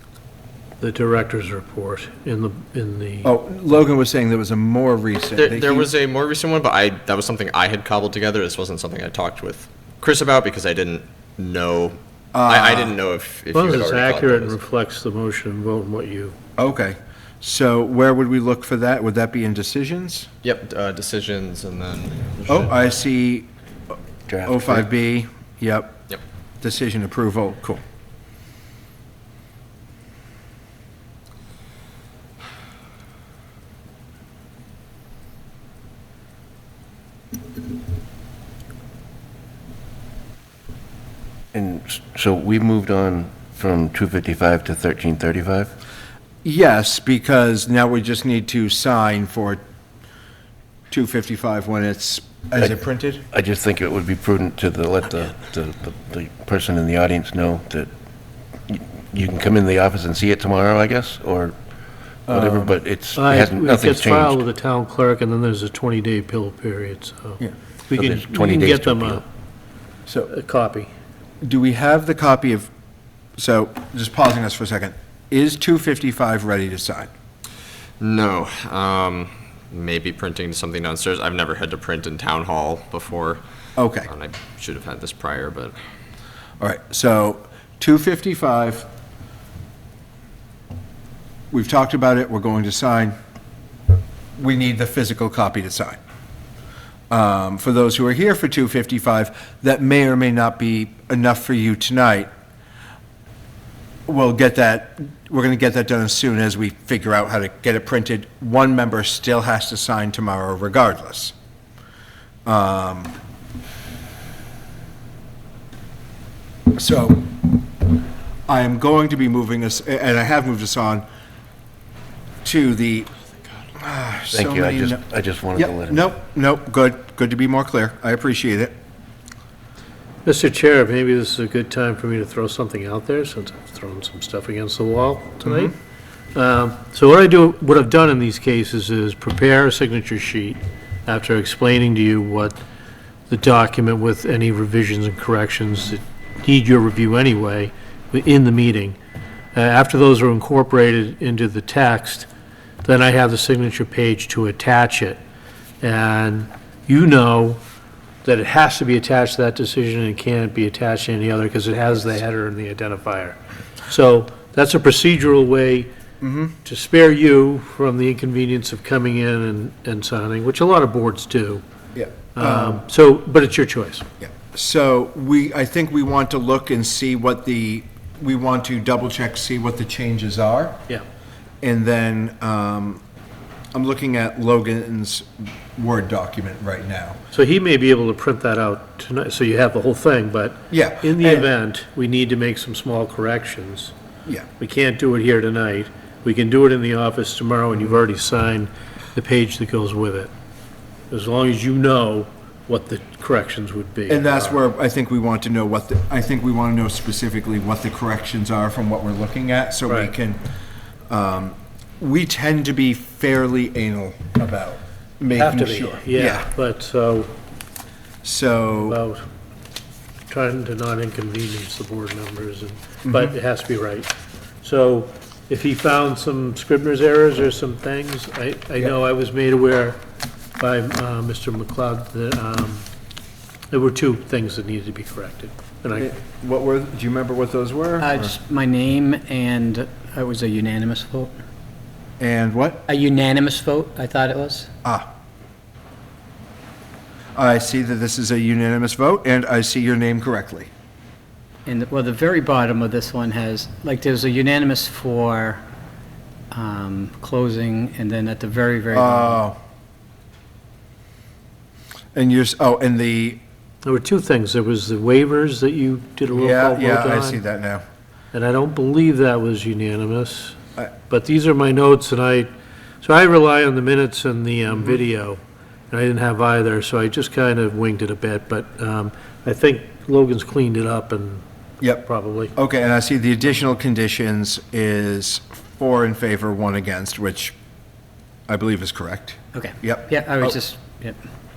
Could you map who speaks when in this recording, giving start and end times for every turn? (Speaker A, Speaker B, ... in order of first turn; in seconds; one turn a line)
Speaker A: 0.8-3.3
Speaker B: 3.2-5.9
Speaker C: 5.3-14.6
Speaker B: 12.3-12.9
Speaker A: 13.5-16.3
Speaker B: 16.6-20.3
Speaker C: 20.4-22.9
Speaker B: 22.5-23.5
Speaker D: 24.3-24.9
Speaker B: 24.4-26.1
Speaker B: 26.6-27.8
Speaker D: 41.5-45.7
Speaker B: 46.4-49.6
Speaker B: 50.9-53.2
Speaker D: 53.3-57.9
Speaker D: 58.7-61.6
Speaker D: 62.2-64.4
Speaker B: 62.3-62.7
Speaker A: 63.1-69.2
Speaker D: 67.9-69.2
Speaker A: 70.3-70.9
Speaker B: 71.4-72.7
Speaker B: 73.4-77.1
Speaker C: 78.0-83.4
Speaker B: 83.8-84.1
Speaker C: 84.0-85.8
Speaker B: 86.6-88.9
Speaker B: 91.5-93.1
Speaker B: 94.4-96.0
Speaker B: 97.1-102.3
Speaker B: 104.1-111.3
Speaker B: 112.4-113.1
Speaker B: 116.7-117.6
Speaker B: 118.5-121.0
Speaker B: 122.4-123.1
Speaker B: 123.8-125.0
Speaker D: 124.3-126.1
Speaker B: 125.5-128.7
Speaker A: 130.2-135.7
Speaker B: 135.4-135.7
Speaker A: 136.3-142.6
Speaker A: 143.3-149.0
Speaker A: 149.5-152.3
Speaker A: 152.8-155.2
Speaker A: 155.8-157.6
Speaker A: 158.2-165.9
Speaker B: 166.2-166.6
Speaker A: 166.6-171.6
Speaker B: 171.9-172.8
Speaker A: 172.3-174.1
Speaker B: 174.2-180.8
Speaker B: 181.6-183.0
Speaker B: 183.7-187.2
Speaker A: 187.3-193.9
Speaker B: 190.7-191.5
Speaker A: 194.6-200.3
Speaker A: 201.1-204.6
Speaker B: 204.1-210.4
Speaker A: 209.8-210.1
Speaker B: 211.1-216.5
Speaker A: 215.3-217.3
Speaker B: 218.2-219.0
Speaker A: 218.8-219.2
Speaker A: 220.3-224.1
Speaker B: 223.0-223.4
Speaker A: 224.6-230.0
Speaker A: 230.6-232.8
Speaker A: 233.7-236.1
Speaker B: 235.9-238.3
Speaker E: 238.0-241.3
Speaker B: 242.2-242.8
Speaker E: 242.9-244.7
Speaker B: 244.8-245.1
Speaker B: 247.3-250.7
Speaker E: 251.7-255.6
Speaker E: 256.5-259.4
Speaker B: 258.9-259.5
Speaker B: 262.1-263.4
Speaker A: 263.8-267.4
Speaker B: 266.3-267.8
Speaker A: 268.3-270.6
Speaker A: 271.1-272.5
Speaker A: 273.0-275.4
Speaker A: 275.9-282.5
Speaker B: 281.8-287.5
Speaker B: 288.5-290.6
Speaker E: 289.5-291.2